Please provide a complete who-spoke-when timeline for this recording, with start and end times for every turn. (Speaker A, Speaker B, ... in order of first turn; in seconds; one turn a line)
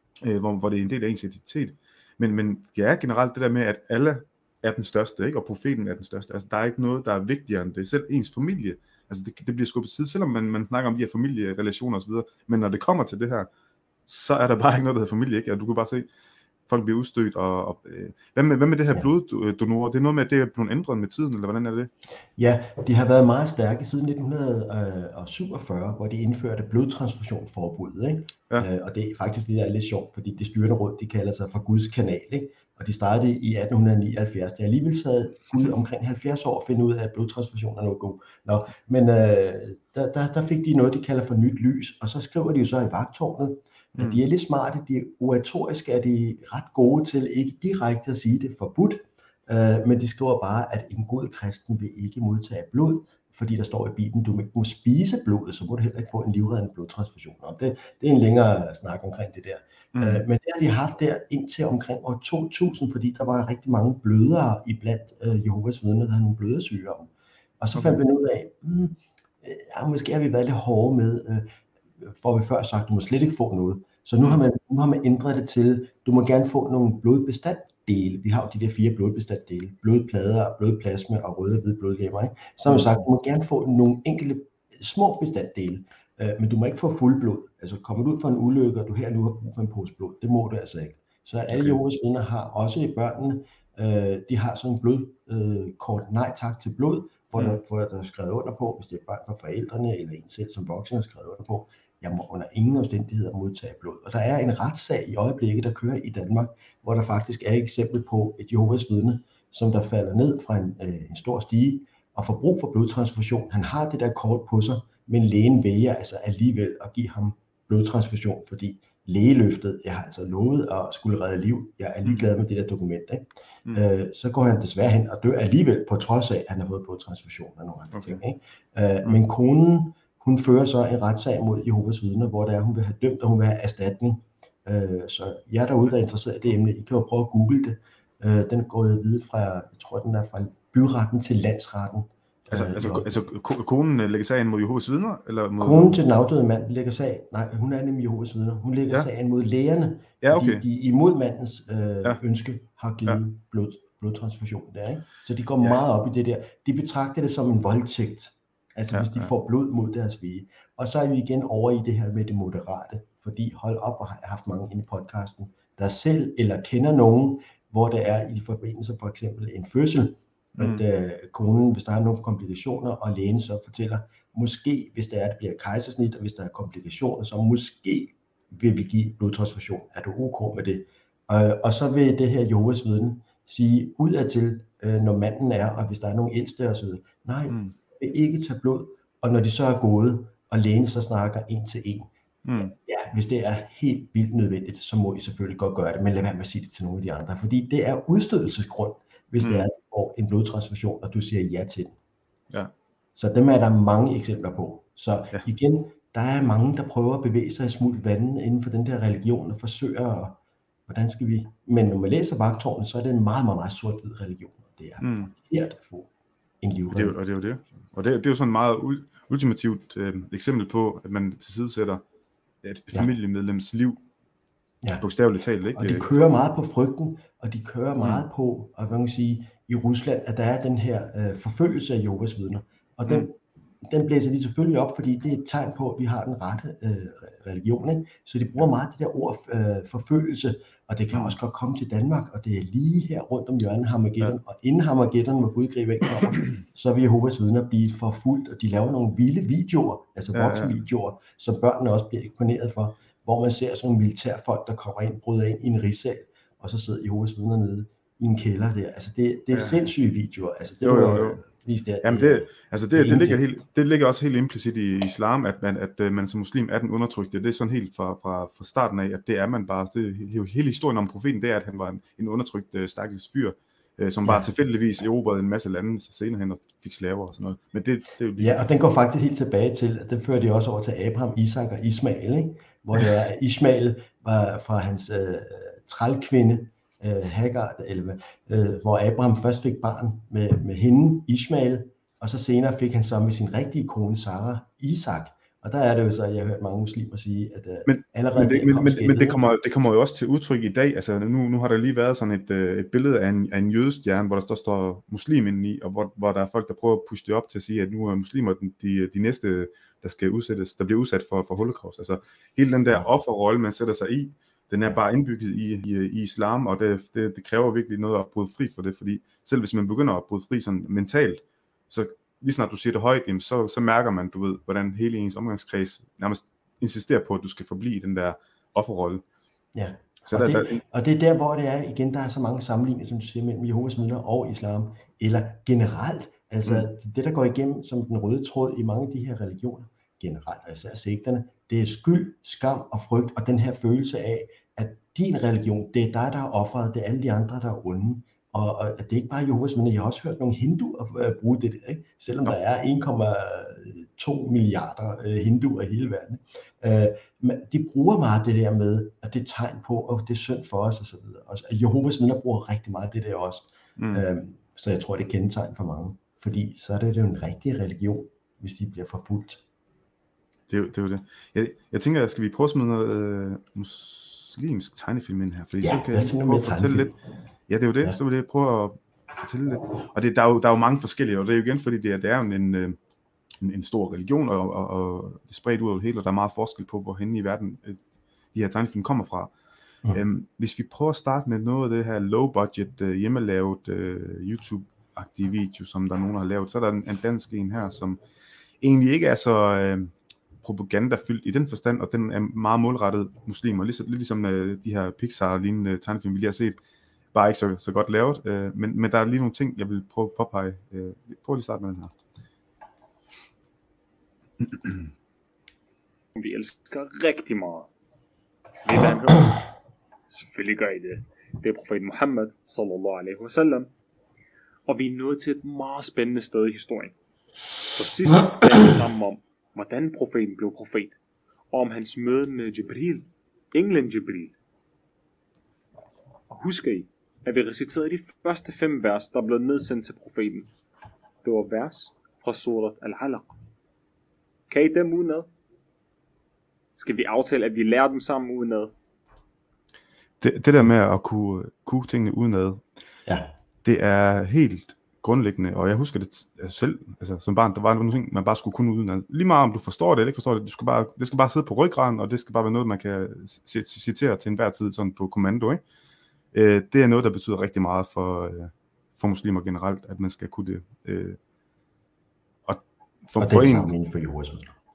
Speaker A: 0.2-13.5
Speaker A: 14.1-16.1
Speaker A: 16.7-21.9
Speaker B: 22.4-71.5
Speaker A: 43.9-44.2
Speaker A: 59.9-60.2
Speaker A: 67.7-68.0
Speaker B: 72.0-143.2
Speaker A: 82.7-83.0
Speaker A: 91.5-91.8
Speaker A: 122.0-122.3
Speaker A: 127.9-128.2
Speaker A: 142.5-146.0
Speaker B: 145.6-201.9
Speaker A: 150.2-150.6
Speaker A: 158.9-159.3
Speaker A: 170.6-170.8
Speaker A: 187.5-187.7
Speaker A: 192.4-192.7
Speaker A: 199.4-199.7
Speaker B: 203.2-210.3
Speaker B: 210.9-216.1
Speaker A: 215.0-215.3
Speaker B: 216.6-217.1
Speaker A: 216.9-222.0
Speaker A: 222.6-224.0
Speaker A: 225.0-226.2
Speaker B: 225.8-263.4
Speaker A: 228.0-228.2
Speaker A: 250.3-250.8
Speaker A: 259.5-259.8
Speaker A: 260.8-261.4
Speaker A: 262.0-278.6
Speaker B: 278.4-299.5
Speaker A: 297.9-329.2
Speaker B: 329.7-369.6
Speaker A: 330.3-330.8
Speaker A: 364.0-364.2
Speaker A: 370.7-377.1
Speaker B: 375.8-377.1
Speaker A: 377.7-383.0
Speaker A: 383.6-388.0
Speaker A: 388.5-389.5
Speaker A: 390.1-398.2
Speaker A: 398.8-406.8
Speaker A: 407.3-412.1
Speaker A: 414.6-415.1
Speaker C: 416.4-417.9
Speaker C: 418.8-419.6
Speaker C: 420.3-423.9
Speaker C: 424.9-427.1
Speaker C: 427.9-431.2
Speaker C: 431.7-434.5
Speaker C: 436.5-440.7
Speaker C: 441.4-443.5
Speaker C: 444.7-445.5
Speaker C: 446.9-448.9
Speaker A: 450.4-452.8
Speaker B: 453.3-453.5
Speaker A: 453.8-465.8
Speaker A: 466.5-471.4
Speaker A: 472.7-473.9
Speaker B: 473.4-474.8